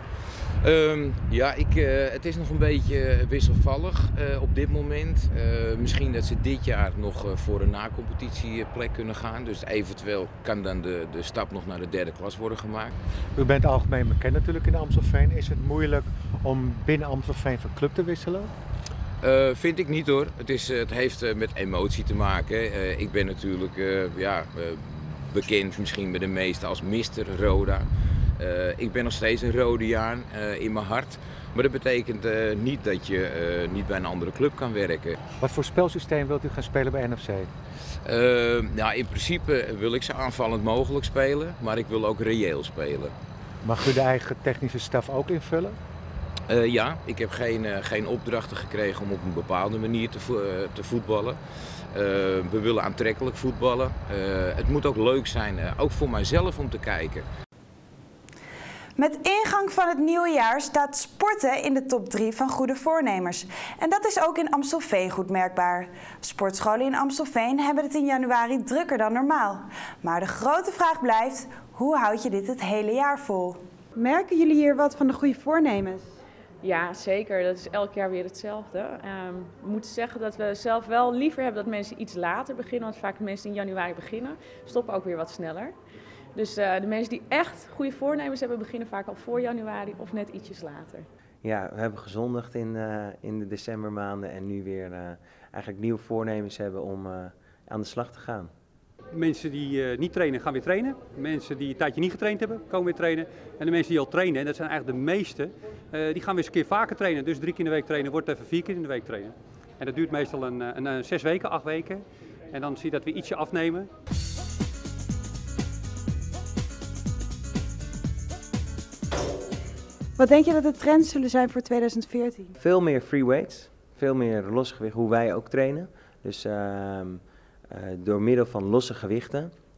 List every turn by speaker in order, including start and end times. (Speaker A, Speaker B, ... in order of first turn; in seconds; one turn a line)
Speaker A: 0.6-12.9
Speaker B: 13.4-18.4
Speaker C: 14.1-15.8
Speaker C: 16.5-16.8
Speaker C: 17.5-18.4
Speaker A: 19.2-27.9
Speaker A: 28.4-35.2
Speaker C: 35.4-37.4
Speaker B: 35.5-37.4
Speaker A: 38.0-43.1
Speaker C: 43.7-44.6
Speaker B: 43.8-45.7
Speaker A: 46.5-51.4
Speaker A: 51.9-57.2
Speaker D: 59.0-76.1
Speaker E: 76.6-85.7
Speaker E: 86.3-91.1
Speaker B: 91.5-98.5
Speaker F: 99.1-113.9
Speaker D: 120.2-122.5
Speaker B: 122.7-127.2
Speaker C: 123.7-124.0
Speaker B: 127.8-129.5